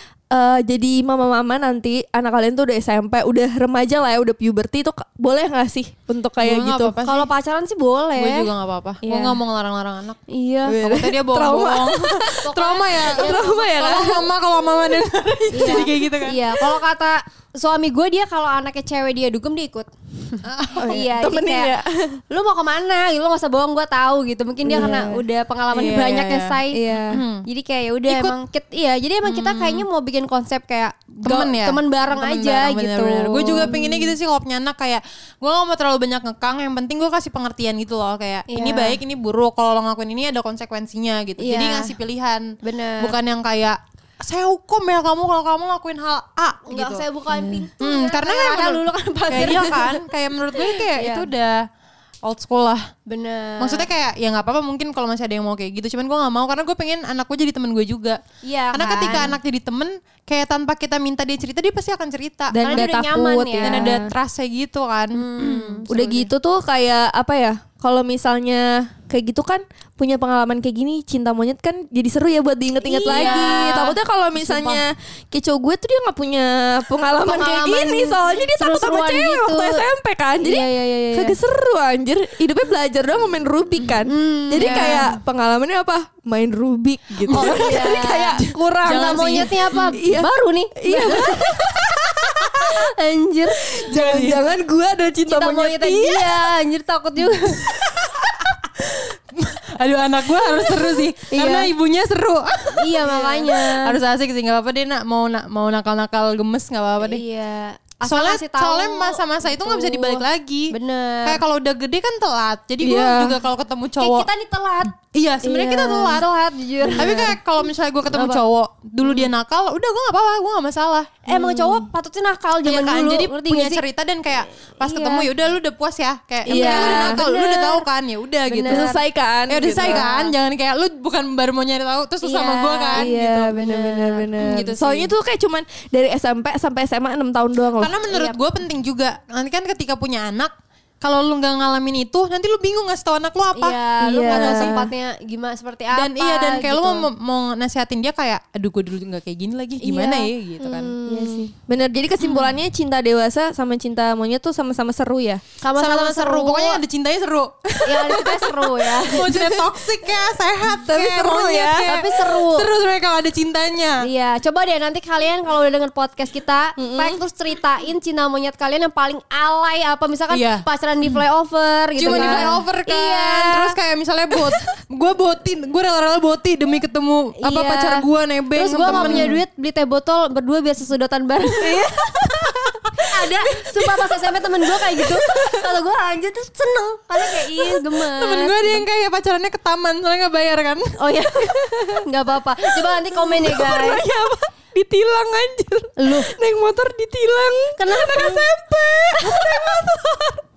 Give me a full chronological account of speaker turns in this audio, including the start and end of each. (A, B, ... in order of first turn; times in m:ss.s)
0:00.3-0:07.0 A
0:06.4-0:07.3 B
0:07.0-0:08.5 C
0:08.2-0:10.2 B
0:09.0-0:09.4 A
0:10.3-0:10.8 C
0:10.6-0:14.3 A
0:10.7-0:16.8 B
0:12.4-0:13.6 C
0:15.5-0:19.9 C
0:20.4-0:21.0 B
0:20.8-0:22.2 A
0:20.8-0:21.8 C
0:22.3-0:33.9 C
0:24.6-0:25.2 A
0:25.7-0:27.4 B
0:26.7-0:27.2 A
0:28.1-0:28.4 B
0:29.2-0:29.8 B
0:31.2-0:51.6 B
0:33.6-0:34.1 A
0:38.5-0:39.0 C
0:41.4-0:41.9 C
0:42.6-0:43.1 C
0:46.6-0:50.0 C
0:50.5-0:51.3 C
0:52.2-0:52.9 B
0:53.1-0:53.9 C
0:53.6-1:02.9 B
0:58.4-0:59.4 C
1:02.5-1:04.1 A
1:02.6-1:04.0 C
1:03.6-1:06.3 B
1:05.1-1:05.8 C
1:05.9-1:29.3 A
1:12.8-1:14.8 C
1:13.0-1:13.9 B
1:17.2-1:19.9 C
1:20.4-1:21.4 C
1:24.0-1:25.2 C
1:24.6-1:25.0 B
1:27.3-1:27.9 B
1:27.3-1:31.6 C
1:28.4-1:30.0 B
1:29.9-1:32.6 A
1:32.6-1:33.8 C
1:33.7-1:36.5 A
1:33.9-1:34.5 B
1:35.2-1:37.7 C
1:37.7-1:47.2 B
1:41.3-1:41.7 C
1:42.7-1:44.0 C
1:47.0-1:51.4 C
1:48.0-1:54.3 B
1:52.8-1:53.4 A
1:54.0-1:57.3 C
1:55.0-1:56.3 B
1:56.8-1:57.4 A
1:56.9-2:01.2 B
1:58.1-1:58.4 C
2:01.2-2:05.3 C
2:01.3-2:01.9 A
2:02.6-2:08.9 B
2:06.4-2:07.2 A
2:06.4-2:07.8 C
2:08.5-2:09.0 C
2:08.7-2:10.0 A
2:09.5-2:13.3 B
2:09.5-2:10.3 C
2:12.2-2:14.3 C
2:12.9-2:17.9 A
2:14.4-2:15.1 B
2:17.7-2:23.8 B
2:18.1-2:18.4 C
2:23.5-2:27.0 C
2:24.0-2:24.9 A
2:24.3-2:24.9 B
2:25.9-2:30.9 B
2:29.8-2:35.4 A
2:31.0-2:31.5 C
2:32.2-2:32.6 B
2:35.6-2:36.8 C
2:35.8-2:44.1 B
2:37.8-2:39.5 C
2:39.3-2:39.7 A
2:40.6-2:41.9 A
2:41.7-2:42.7 C
2:44.0-2:53.8 C
2:46.8-2:47.2 A
2:50.3-2:51.2 B
2:52.0-2:59.4 B
2:52.0-2:52.6 A
2:57.4-3:01.9 C
2:58.8-2:59.4 A
3:01.6-3:02.7 A
3:03.0-3:08.9 C
3:03.2-3:03.5 B
3:05.0-3:05.6 A
3:07.5-3:10.9 B
3:11.0-3:14.0 C
3:11.4-3:12.0 A
3:12.7-3:20.4 A
3:16.0-3:16.3 C
3:17.8-3:18.5 C
3:19.2-3:19.6 C